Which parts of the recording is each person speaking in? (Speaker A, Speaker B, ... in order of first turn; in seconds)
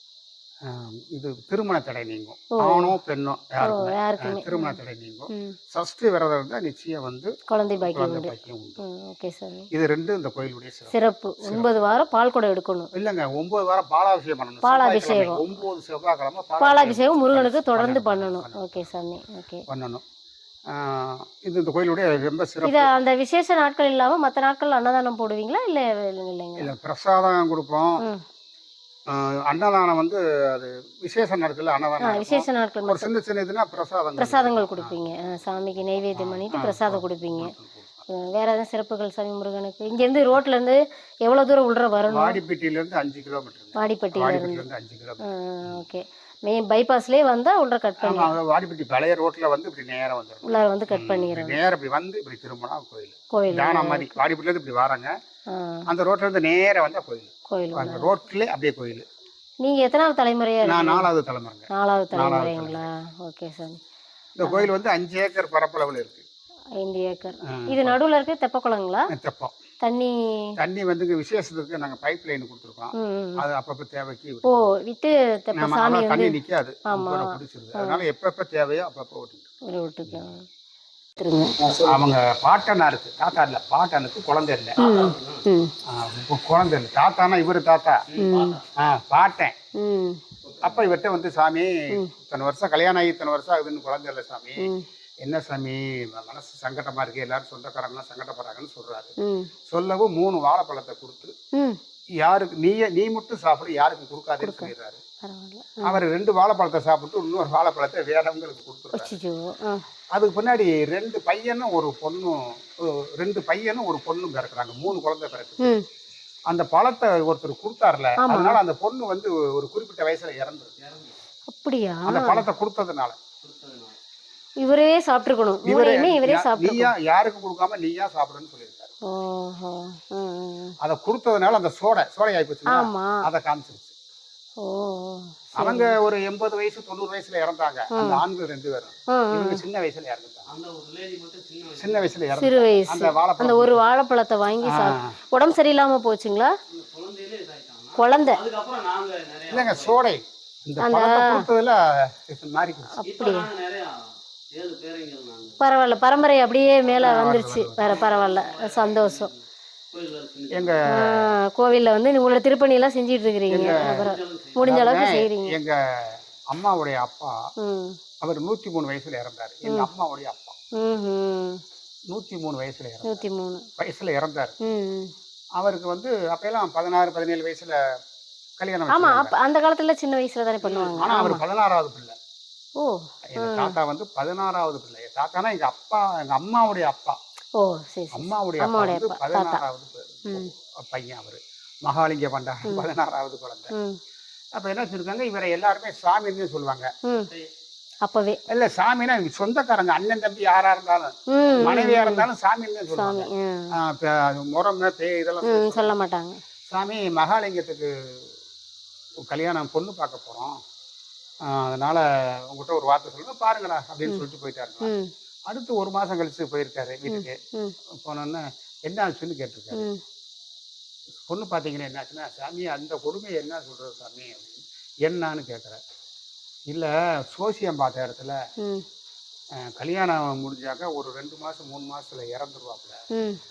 Speaker A: 0.7-7.3, 7.8-8.8, 9.7-11.7, 12.9-18.8, 19.7-20.0, 20.7-22.9, 26.6-28.0, 29.1-35.0, 36.1-38.0, 42.1-45.8, 48.0-55.1, 55.9-59.1, 60.6-62.9, 64.4-66.2, 67.5-68.0, 69.1-69.5, 70.6-74.7, 75.6-79.5, 81.7-84.8, 85.9-88.1, 88.8-89.5, 90.6-94.7, 95.2-99.1, 99.7-101.3, 102.2-105.0, 105.8-109.1, 110.2-115.8, 116.5-120.7, 122.0-123.2, 125.7-128.9, 130.8-133.9, 135.6-140.5, 141.8-143.9, 144.6-145.2, 149.5-153.0, 157.0-158.1, 160.5-161.3, 163.5-164.1, 164.6-167.4, 168.2-170.6, 172.1-173.2, 173.8-174.6, 175.6-177.8, 178.6-179.3, 180.8-182.2, 183.3-187.2, 188.1-193.7, 194.6-196.9, 198.5-205.9, 206.7-208.3, 209.3-210.6, 211.5-214.9, 215.5-217.4, 218.0-219.9, 221.3-225.8, 226.7-228.4, 229.6-233.0
Speaker B: 2.6-3.0, 3.6-4.8, 5.3-5.6, 7.5-9.7, 10.9-12.9, 14.6-15.4, 16.6-19.6, 22.6-26.7, 32.0-33.1, 34.2-37.5, 38.1-42.4, 43.8-44.6, 45.2-48.3, 50.4-51.6, 53.3-54.1, 55.5-55.8, 57.5-58.1, 59.6-61.1, 61.7-63.8, 64.4-64.7, 66.8-69.1, 69.8-70.5, 72.9-73.5, 74.5-76.4, 76.9-78.0, 79.7-80.5, 81.2-81.5, 84.8-85.7, 88.2-88.6, 89.8-90.2, 99.2-99.5, 104.4-106.0, 108.9-109.8, 118.2-118.6, 121.5-122.4, 124.6-126.9, 129.1-130.8, 132.7-133.2, 134.6-136.0, 137.9-138.2, 139.1-139.6, 142.3-146.5, 147.9-148.4, 150.8-151.4, 153.0-153.5, 155.6-159.3, 160.9-165.6, 167.6-168.0, 170.8-171.6, 173.0-173.7, 174.6-175.1, 178.9-181.4, 182.8-183.8, 187.6-189.6, 193.7-194.0, 197.1-197.3, 198.1-198.4, 201.3-202.3, 202.9-203.8, 205.4-206.4, 214.8-215.1, 217.1-217.8, 219.7-220.0, 233.1-233.4
Speaker C: 84.9-85.4, 88.2-88.6, 123.4-124.0, 140.5-142.0, 146.7-149.9, 153.1-155.6, 158.1-159.4, 159.9-160.8, 164.0-164.6